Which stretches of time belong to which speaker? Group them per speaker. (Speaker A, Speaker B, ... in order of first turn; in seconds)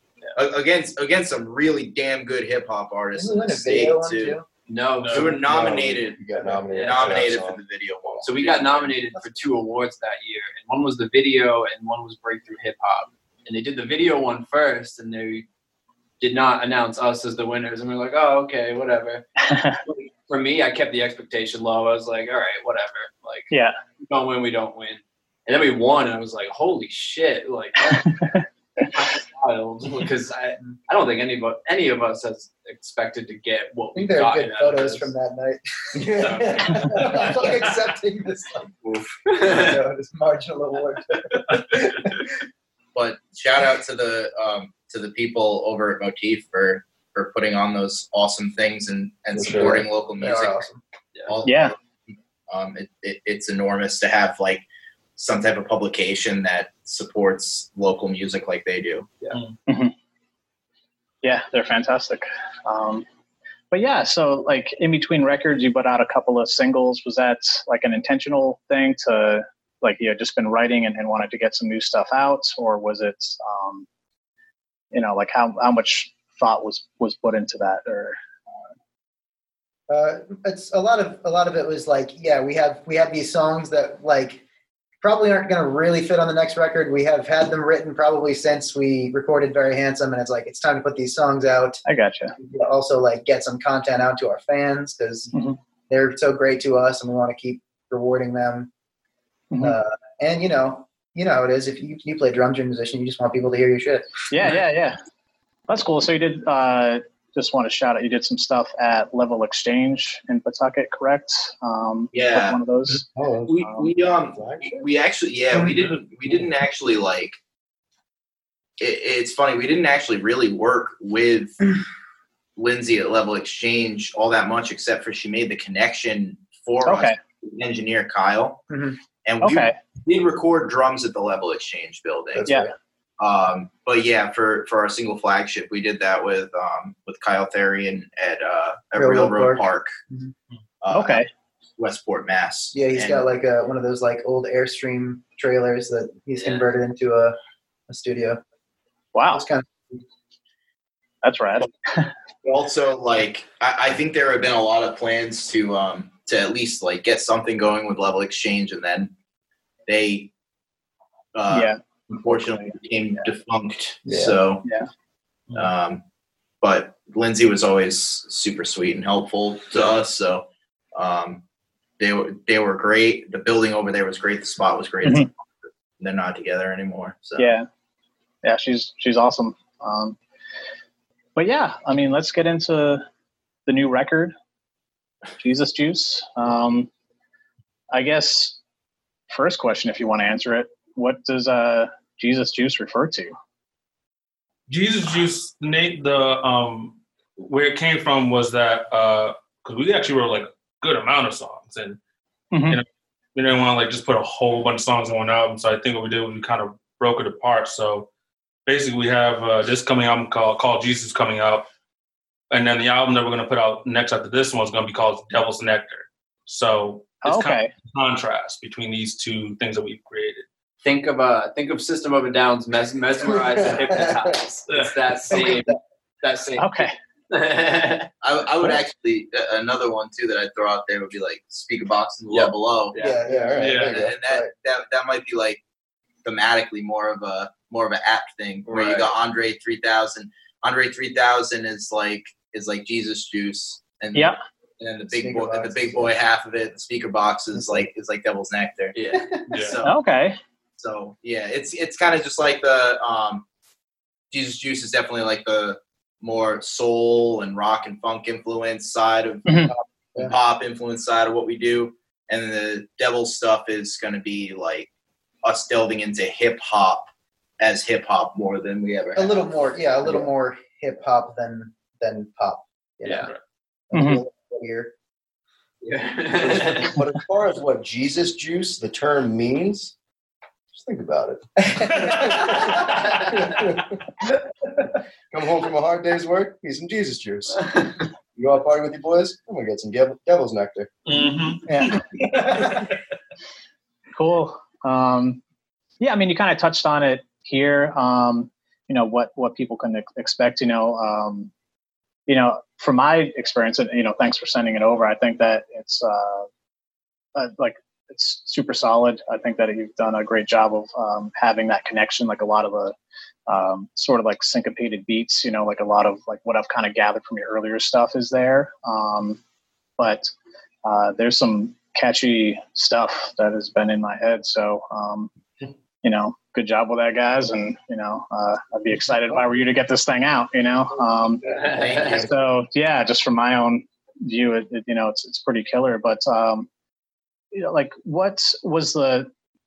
Speaker A: 0.3-4.4, 5.1-6.2, 6.7-8.9, 42.9-50.6, 51.2-51.8, 52.5-54.6, 55.1-59.2, 112.1-112.6, 113.5-117.4, 118.8-121.6, 122.5-128.6, 129.2-132.5, 133.2-139.9, 140.8-141.2, 141.8-143.3, 152.4-159.1, 159.9-160.3, 161.3-164.6, 165.5-166.0, 166.6-171.4, 172.0-177.6, 228.2-232.9, 233.7-235.6, 236.2-250.0, 250.8-253.4, 254.3-264.9, 265.4-269.6
Speaker B: 3.1-4.4, 34.0-38.8, 39.4-42.1, 49.5-50.8, 79.9-84.4, 85.0-91.8, 92.4-95.3, 95.9-98.7, 99.6-104.1, 128.7-129.0, 132.3-132.7, 139.0-140.3, 142.7-147.3, 147.9-148.4, 149.3-150.0, 164.1-164.4, 225.3-225.7, 232.9-234.5, 245.1-246.2, 247.6-247.8, 259.6-260.4, 269.1-273.3, 273.9-274.9, 281.7-282.6
Speaker C: 4.7-5.4, 6.7-7.3, 8.2-15.4, 16.2-23.5, 24.0-28.1, 28.8-35.1, 36.2-37.4, 39.2-39.8, 146.4-146.7, 220.8-228.1, 232.3-233.2, 238.7-239.1, 248.9-249.3, 273.0-273.3, 275.8-277.0, 331.5-332.3
Speaker D: 5.0-5.3, 194.7-202.0, 202.7-208.1, 208.7-211.7, 212.5-220.4, 224.7-224.9, 233.5-234.0, 249.5-249.8, 291.1-292.9
Speaker E: 5.4-8.2, 35.9-36.9, 49.3-49.9, 113.2-114.8, 223.3-224.3, 233.2-234.1, 276.4-279.9, 280.7-284.0, 285.3-287.6, 288.4-290.9
Speaker F: 19.4-19.8, 23.5-23.8, 27.9-28.4, 51.4-51.7, 59.7-59.9, 61.2-63.0, 63.7-73.8, 74.9-78.2, 91.8-92.3, 99.5-99.8, 104.3-105.0, 105.7-113.0, 126.8-127.2, 129.4-129.7, 132.4-132.7, 140.9-141.3, 149.1-149.4, 151.2-152.1, 161.5-162.7, 177.4-177.7, 178.4-180.2, 181.3-183.0, 183.7-184.3, 185.4-186.9, 187.9-188.6, 189.3-193.3, 202.5-202.8, 217.2-217.7, 226.6-226.9, 249.8-250.4, 259.4-259.7, 273.9-274.2, 294.1-295.4, 296.0-301.5, 302.3-306.5, 307.4-312.9, 313.5-319.4, 320.0-320.3, 320.8-325.3, 326.0-331.4, 332.1-336.7, 337.5-339.3